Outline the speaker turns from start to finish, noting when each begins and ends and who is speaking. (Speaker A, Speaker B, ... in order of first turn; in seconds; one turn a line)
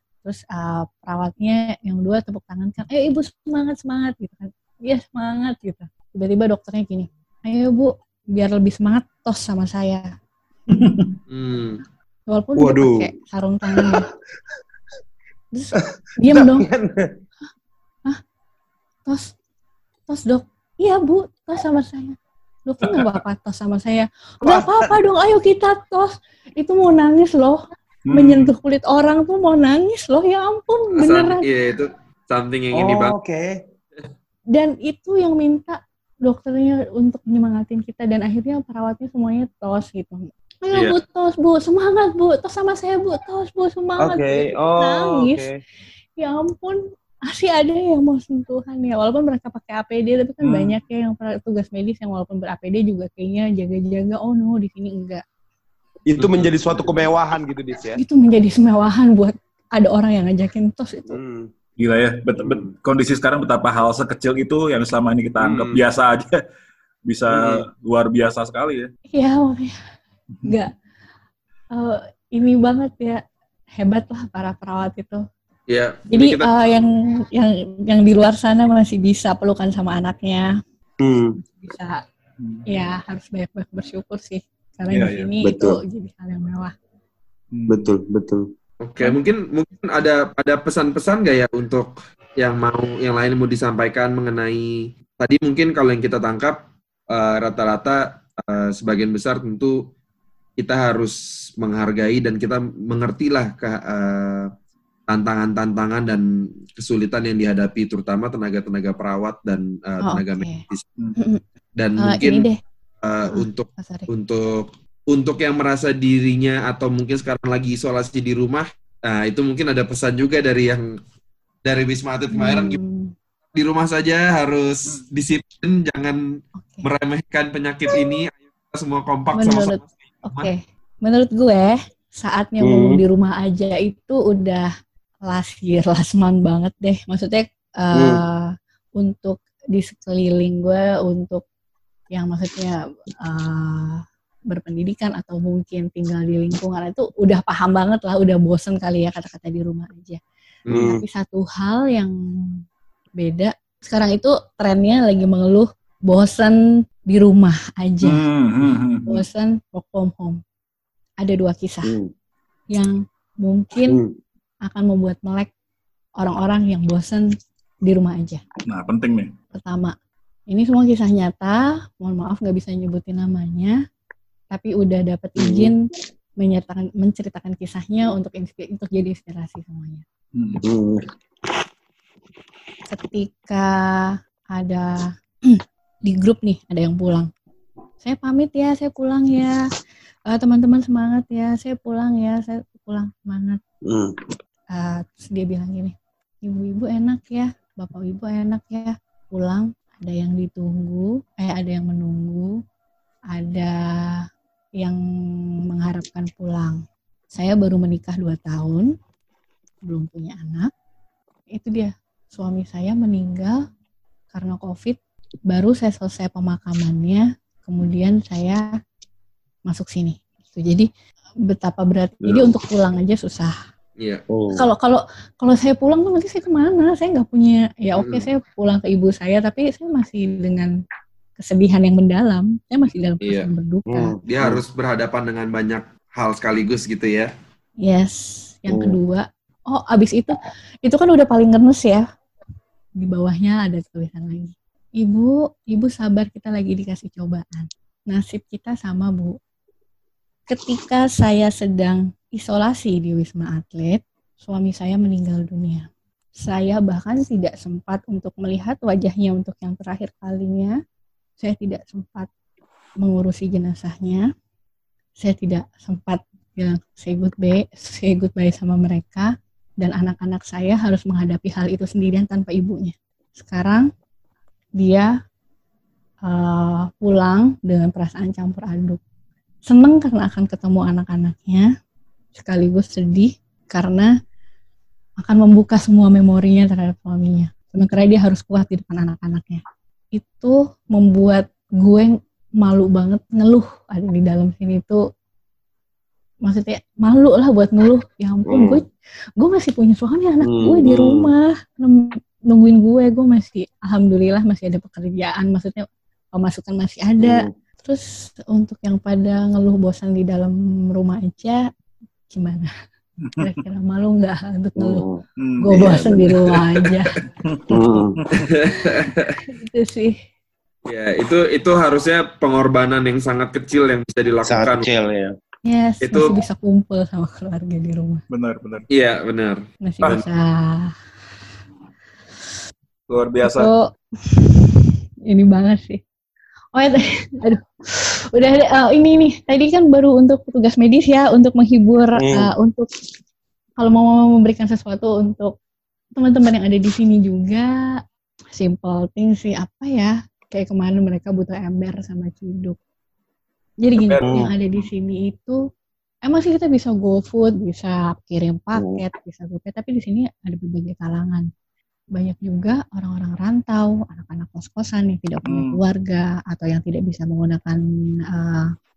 Speaker A: 0.2-10.1
Speaker B: 10.7-11.2
Speaker C: 11.3-11.8
Speaker A: 12.3-14.0
Speaker D: 12.6-13.1
Speaker D: 13.7-14.0
Speaker A: 15.5-16.7
Speaker D: 15.8-17.1
Speaker A: 19.1-19.3
Speaker A: 20.1-31.4
Speaker D: 24.4-24.9
Speaker B: 28.1-28.5
Speaker C: 31.0-33.1
Speaker D: 32.7-33.5
Speaker A: 34.5-45.5
Speaker D: 44.0-45.6
Speaker A: 46.2-55.2
Speaker B: 50.4-50.8
Speaker D: 56.1-58.0
Speaker C: 56.2-57.0
Speaker A: 58.0-61.2
Speaker D: 61.1-61.5
Speaker B: 61.8-66.4
Speaker D: 62.4-62.7
Speaker D: 65.4-65.8
Speaker B: 67.1-68.9
Speaker D: 67.3-67.7
Speaker A: 69.1-69.8
Speaker A: 70.5-70.7
Speaker A: 71.7-73.2
Speaker A: 73.8-75.2
Speaker C: 75.7-76.5
Speaker A: 76.1-80.5
Speaker D: 81.0-81.4
Speaker A: 81.4-82.0
Speaker A: 82.7-86.7
Speaker B: 84.9-85.3
Speaker D: 85.4-85.8
Speaker B: 87.5-87.9
Speaker D: 87.7-88.4
Speaker C: 88.8-96.6
Speaker C: 97.1-99.8
Speaker C: 100.6-104.5
Speaker C: 105.1-110.9
Speaker A: 110.0-110.6
Speaker A: 111.2-111.4
Speaker C: 111.8-112.5
Speaker A: 112.0-112.6
Speaker C: 113.0-121.0
Speaker A: 113.3-114.1
Speaker C: 121.7-122.8
Speaker A: 122.3-123.1
Speaker C: 123.5-130.5
Speaker A: 129.3-129.8
Speaker A: 130.3-134.7
Speaker D: 132.6-133.0
Speaker A: 135.3-141.4
Speaker D: 137.9-138.2
Speaker A: 142.1-150.2
Speaker C: 150.7-150.9
Speaker D: 150.7-151.0
Speaker A: 150.8-152.5
Speaker A: 153.2-156.6
Speaker A: 157.1-158.2
Speaker B: 158.0-159.2
Speaker A: 159.1-160.4
Speaker A: 161.2-161.9
Speaker D: 161.9-162.1
Speaker A: 162.7-164.0
Speaker A: 164.7-165.5
Speaker A: 166.2-167.3
Speaker A: 167.9-168.4
Speaker B: 168.7-169.3
Speaker A: 169.5-169.9
Speaker A: 170.5-173.8
Speaker A: 174.5-175.8
Speaker D: 175.4-175.7
Speaker A: 176.4-180.1
Speaker B: 180.4-180.6
Speaker D: 180.6-181.1
Speaker A: 182.9-187.3
Speaker A: 188.0-189.6
Speaker A: 190.3-193.6
Speaker D: 193.8-194.2
Speaker A: 194.7-202.6
Speaker A: 203.3-203.7
Speaker A: 205.7-206.8
Speaker A: 207.3-208.9
Speaker A: 209.9-210.7
Speaker A: 211.5-213.6
Speaker A: 214.3-215.0
Speaker A: 215.5-218.6
Speaker A: 219.7-220.9
Speaker A: 221.5-223.6
Speaker D: 222.2-222.6
Speaker D: 224.3-224.6
Speaker A: 224.5-230.7
Speaker C: 227.9-228.3
Speaker A: 231.4-234.1
Speaker C: 233.2-233.5
Speaker D: 233.9-234.6
Speaker C: 234.3-237.3
Speaker A: 237.8-242.0
Speaker D: 238.7-239.0
Speaker A: 243.0-249.4
Speaker A: 250.5-255.9
Speaker A: 256.4-260.8
Speaker A: 261.4-262.3
Speaker A: 263.0-264.3
Speaker A: 265.2-273.9
Speaker A: 274.8-275.1
Speaker A: 276.3-279.0
Speaker A: 279.7-281.7
Speaker A: 282.4-284.1
Speaker A: 285.2-289.6
Speaker A: 290.1-295.0
Speaker A: 296.4-298.9
Speaker D: 298.5-298.8
Speaker A: 299.4-305.8
Speaker D: 300.4-301.3
Speaker A: 306.4-311.6
Speaker D: 307.2-307.5
Speaker A: 312.3-312.7
Speaker B: 313.2-313.5
Speaker A: 313.4-315.1
Speaker D: 314.8-315.2
Speaker B: 315.4-316.4
Speaker A: 315.6-317.1
Speaker D: 315.7-316.3
Speaker B: 317.4-318.5
Speaker D: 317.7-318.2
Speaker C: 318.4-319.4
Speaker A: 318.8-320.2
Speaker C: 320.9-324.9
Speaker D: 324.5-325.3
Speaker A: 325.6-328.2
Speaker C: 326.0-326.4
Speaker B: 328.3-328.8
Speaker C: 328.9-330.2
Speaker A: 329.8-331.0
Speaker B: 333.1-333.7
Speaker A: 333.4-336.0
Speaker A: 336.8-342.9
Speaker D: 342.2-342.5
Speaker A: 343.8-345.5
Speaker A: 346.2-347.7
Speaker A: 348.6-352.8
Speaker A: 353.8-355.6
Speaker B: 354.0-354.5
Speaker D: 354.2-354.5
Speaker A: 356.2-361.5
Speaker D: 358.8-359.0
Speaker A: 362.1-367.8
Speaker B: 365.5-365.8
Speaker A: 368.3-368.7